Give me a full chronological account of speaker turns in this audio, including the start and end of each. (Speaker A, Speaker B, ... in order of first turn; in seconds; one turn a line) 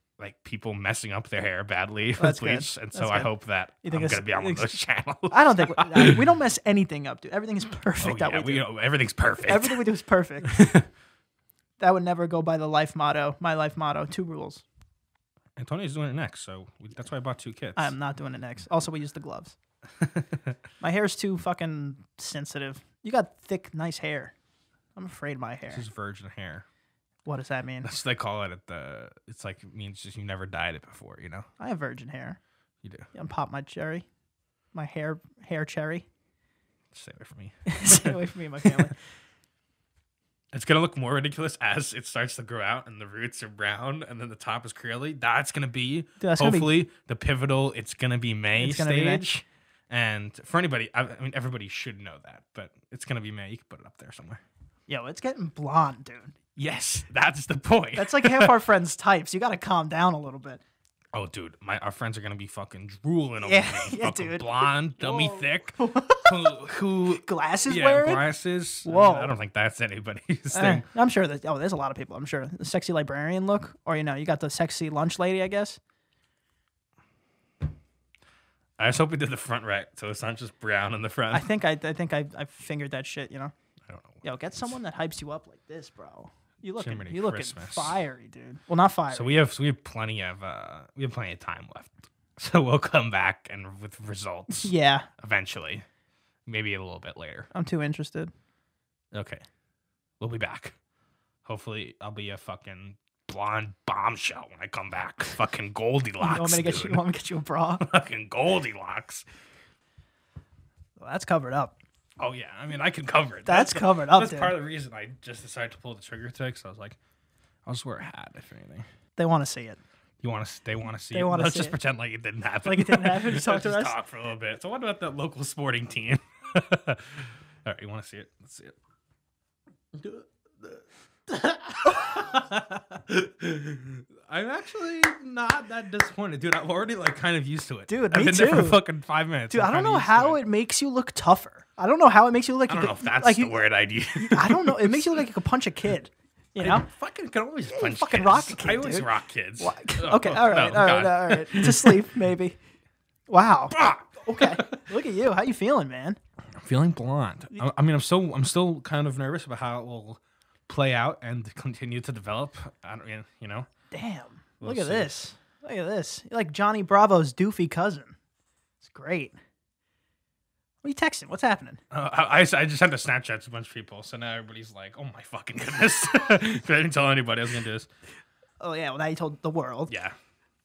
Speaker A: 0.2-6.2
Speaker B: 2.2-3.3
Speaker B: 3.8-4.7
Speaker B: 5.3-8.7
Speaker A: 8.0-9.8
Speaker B: 9.5-10.6
Speaker A: 10.4-10.9
Speaker B: 11.8-14.6
Speaker A: 15.6-17.9
Speaker B: 17.8-19.6
Speaker A: 20.0-20.6
Speaker B: 20.8-24.3
Speaker B: 25.0-25.9
Speaker A: 25.7-26.7
Speaker B: 27.3-27.9
Speaker A: 27.8-31.5
Speaker B: 31.6-32.4
Speaker A: 32.8-33.1
Speaker B: 33.1-34.1
Speaker B: 34.7-36.1
Speaker A: 36.9-38.9
Speaker B: 37.7-39.0
Speaker A: 40.5-54.4
Speaker B: 46.2-46.7
Speaker B: 48.6-49.3
Speaker B: 54.9-56.4
Speaker A: 56.6-58.6
Speaker B: 57.9-60.6
Speaker A: 61.1-70.9
Speaker B: 63.4-68.3
Speaker B: 68.8-69.3
Speaker B: 70.5-75.8
Speaker A: 78.8-81.5
Speaker B: 81.3-83.5
Speaker A: 83.9-84.2
Speaker B: 84.2-89.4
Speaker A: 86.8-88.0
Speaker A: 89.1-95.9
Speaker B: 94.5-95.1
Speaker A: 96.5-97.5
Speaker B: 97.5-98.3
Speaker A: 99.1-99.4
Speaker A: 100.2-100.8
Speaker A: 101.5-107.0
Speaker B: 106.2-107.9
Speaker A: 107.8-109.3
Speaker B: 111.0-111.7
Speaker A: 112.2-117.0
Speaker B: 113.5-114.5
Speaker A: 117.7-118.8
Speaker B: 119.2-119.8
Speaker A: 120.2-128.8
Speaker B: 121.1-121.8
Speaker B: 122.7-124.0
Speaker A: 129.9-140.4
Speaker B: 137.9-138.8
Speaker B: 139.5-143.6
Speaker A: 142.7-145.2
Speaker B: 144.2-146.9
Speaker A: 146.6-152.0
Speaker B: 147.7-152.6
Speaker B: 153.3-156.2
Speaker A: 153.7-154.7
Speaker A: 156.5-163.7
Speaker B: 163.9-168.2
Speaker A: 164.6-165.2
Speaker B: 168.8-169.4
Speaker B: 170.8-171.8
Speaker A: 171.9-177.9
Speaker B: 178.6-179.9
Speaker A: 179.9-180.2